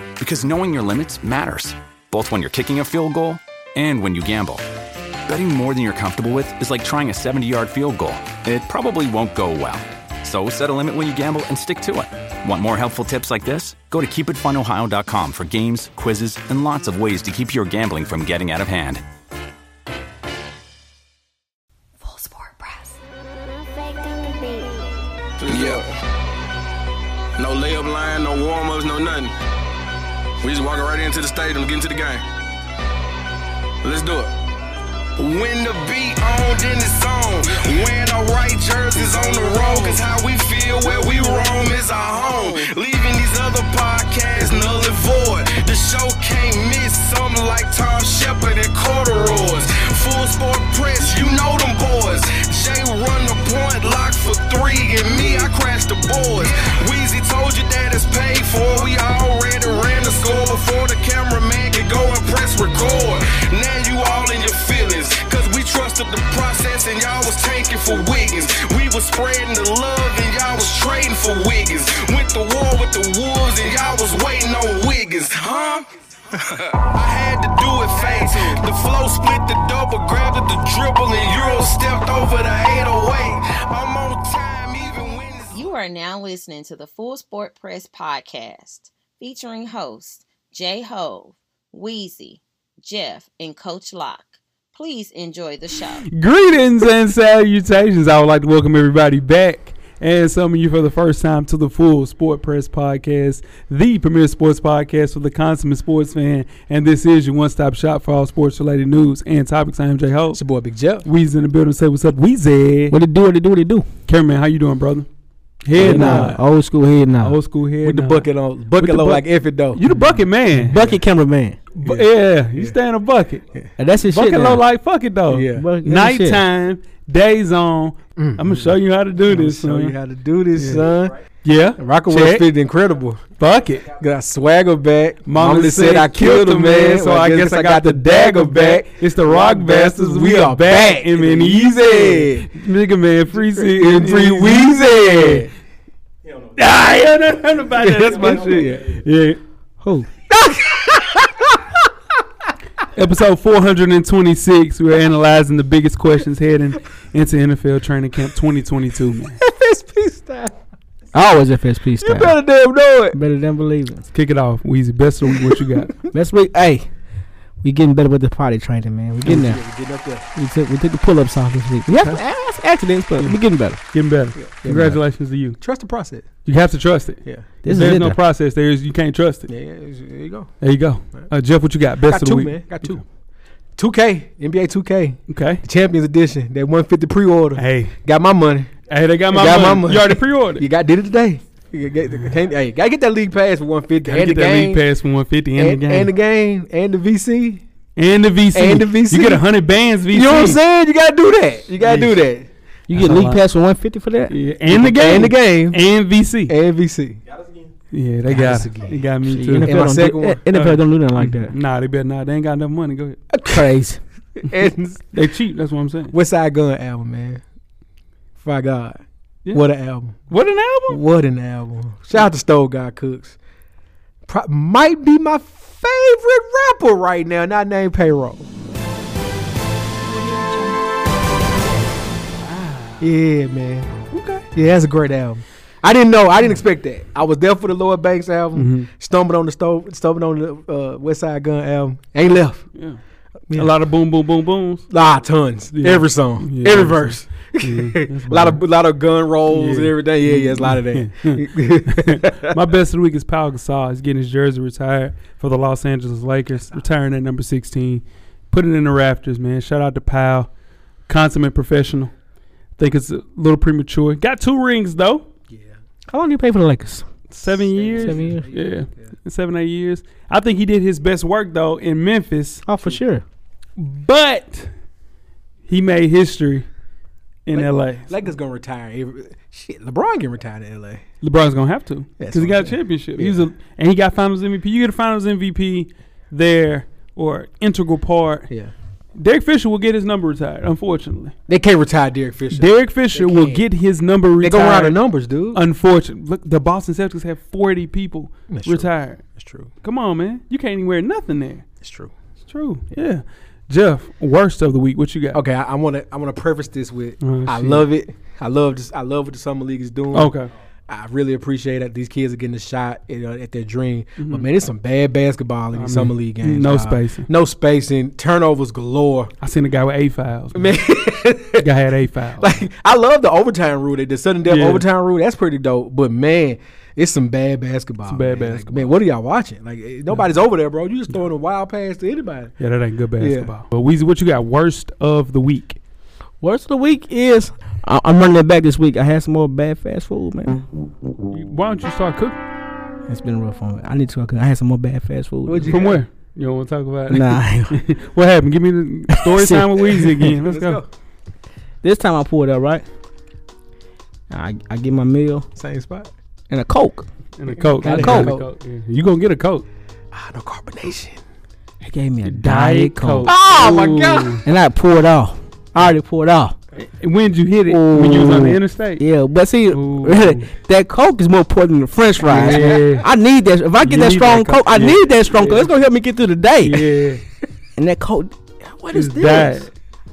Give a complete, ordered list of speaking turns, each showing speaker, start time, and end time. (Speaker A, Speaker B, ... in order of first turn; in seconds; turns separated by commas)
Speaker A: 0.2-4.7, Speaker A: 5.3-19.0, Speaker B: 22.1-22.4, Speaker C: 25.4-25.9, Speaker C: 27.4-29.3, Speaker C: 30.4-32.2, Speaker C: 33.8-34.3, Speaker C: 35.2-85.7, Speaker B: 85.5-96.1, Speaker D: 96.0-110.4, Speaker E: 110.3-111.0, Speaker D: 111.0-113.0, Speaker F: 112.9-113.9, Speaker D: 114.1-115.1, Speaker D: 115.6-116.4, Speaker F: 115.7-117.4, Speaker E: 115.8-116.3, Speaker D: 117.2-120.8, Speaker E: 117.8-119.8, Speaker F: 120.5-121.6, Speaker E: 120.7-121.0, Speaker D: 121.8-123.5, Speaker E: 121.8-122.8, Speaker F: 123.8-124.6, Speaker D: 124.1-129.9, Speaker E: 125.3-125.7, Speaker F: 125.5-126.4, Speaker E: 128.2-128.7, Speaker E: 129.3-131.2, Speaker D: 130.6-130.9, Speaker D: 131.4-132.5, Speaker E: 131.8-133.2, Speaker D: 133.4-133.9, Speaker E: 133.9-142.5, Speaker D: 135.3-145.5, Speaker E: 143.3-145.5, Speaker D: 146.5-149.4, Speaker E: 147.8-149.0, Speaker F: 149.8-150.1, Speaker E: 150.3-151.7, Speaker D: 152.9-159.4, Speaker E: 159.4-160.6, Speaker F: 161.1-162.4, Speaker E: 162.0-163.2, Speaker F: 163.1-164.1, Speaker D: 164.1-165.9, Speaker F: 166.1-166.9, Speaker F: 167.6-169.6, Speaker E: 169.2-170.2, Speaker F: 170.3-173.8, Speaker D: 173.9-175.6, Speaker E: 174.4-175.0, Speaker F: 174.7-175.0, Speaker E: 175.6-176.3, Speaker D: 176.4-179.5, Speaker F: 177.6-178.2, Speaker E: 179.5-180.5, Speaker D: 180.6-183.0, Speaker E: 182.0-183.0, Speaker E: 183.8-188.8, Speaker D: 185.3-185.7, Speaker D: 187.6-188.0, Speaker D: 188.9-190.7, Speaker E: 189.3-194.8, Speaker D: 194.0-196.1, Speaker E: 195.6-197.6, Speaker D: 198.0-200.6, Speaker E: 198.5-199.5, Speaker E: 200.1-202.5, Speaker D: 201.8-202.2, Speaker F: 202.9-204.3, Speaker D: 202.9-203.4, Speaker D: 204.3-206.5, Speaker E: 204.7-205.8, Speaker E: 206.5-207.2, Speaker D: 207.9-210.0, Speaker E: 208.3-208.9, Speaker F: 208.3-208.7, Speaker F: 209.3-211.5, Speaker E: 209.6-210.4, Speaker D: 210.5-213.2, Speaker E: 213.3-213.6, Speaker F: 213.5-214.0, Speaker E: 214.4-215.1, Speaker D: 215.1-216.1, Speaker E: 216.1-217.4, Speaker E: 218.4-220.3, Speaker D: 220.3-221.0, Speaker E: 220.9-223.4, Speaker E: 224.3-228.5, Speaker D: 232.4-233.1, Speaker E: 233.0-242.7, Speaker D: 234.1-234.4, Speaker D: 238.5-238.9, Speaker D: 242.8-243.0, Speaker D: 243.5-244.9, Speaker E: 244.9-252.6, Speaker D: 245.7-248.6, Speaker D: 249.5-260.5, Speaker D: 261.1-262.1, Speaker D: 262.8-265.3, Speaker F: 266.1-267.1, Speaker D: 267.3-272.6, Speaker E: 267.7-269.1, Speaker F: 268.0-268.5, Speaker F: 272.7-273.2, Speaker D: 273.8-274.7, Speaker D: 275.7-276.7, Speaker D: 277.5-278.1, Speaker E: 277.5-281.0, Speaker D: 281.2-288.5, Speaker E: 282.2-283.5, Speaker D: 289.2-291.4, Speaker E: 291.5-293.6, Speaker D: 292.5-295.0, Speaker E: 294.4-295.6, Speaker D: 295.5-299.2, Speaker E: 298.5-299.7, Speaker D: 299.8-301.7, Speaker E: 301.8-302.1, Speaker D: 302.4-305.4, Speaker E: 305.3-310.3, Speaker D: 307.2-307.9, Speaker D: 310.1-310.5, Speaker E: 310.9-319.3, Speaker D: 314.2-314.5, Speaker D: 315.8-317.3, Speaker D: 319.4-320.8, Speaker E: 320.5-321.7, Speaker D: 321.6-322.5, Speaker E: 322.4-332.6, Speaker D: 324.5-324.8, Speaker D: 328.1-328.9, Speaker D: 332.6-335.8, Speaker E: 333.2-333.5, Speaker F: 336.4-340.7, Speaker D: 341.3-342.4, Speaker F: 343.1-345.9, Speaker E: 345.5-346.0, Speaker D: 345.6-350.8, Speaker F: 347.1-347.8, Speaker F: 349.1-350.3, Speaker E: 350.4-350.9, Speaker F: 351.8-352.9, Speaker F: 354.3-355.5, Speaker E: 355.6-356.1, Speaker F: 356.5-357.1, Speaker D: 357.4-359.7, Speaker E: 357.8-358.4, Speaker F: 357.8-358.4, Speaker E: 360.1-361.2, Speaker F: 361.8-363.4, Speaker D: 362.2-364.4, Speaker E: 363.3-364.4, Speaker F: 364.4-366.6, Speaker D: 366.8-369.0, Speaker F: 367.7-376.9, Speaker D: 369.7-370.5, Speaker D: 372.2-373.1, Speaker D: 373.8-375.7, Speaker D: 376.6-377.2, Speaker F: 377.8-379.7, Speaker D: 378.9-379.7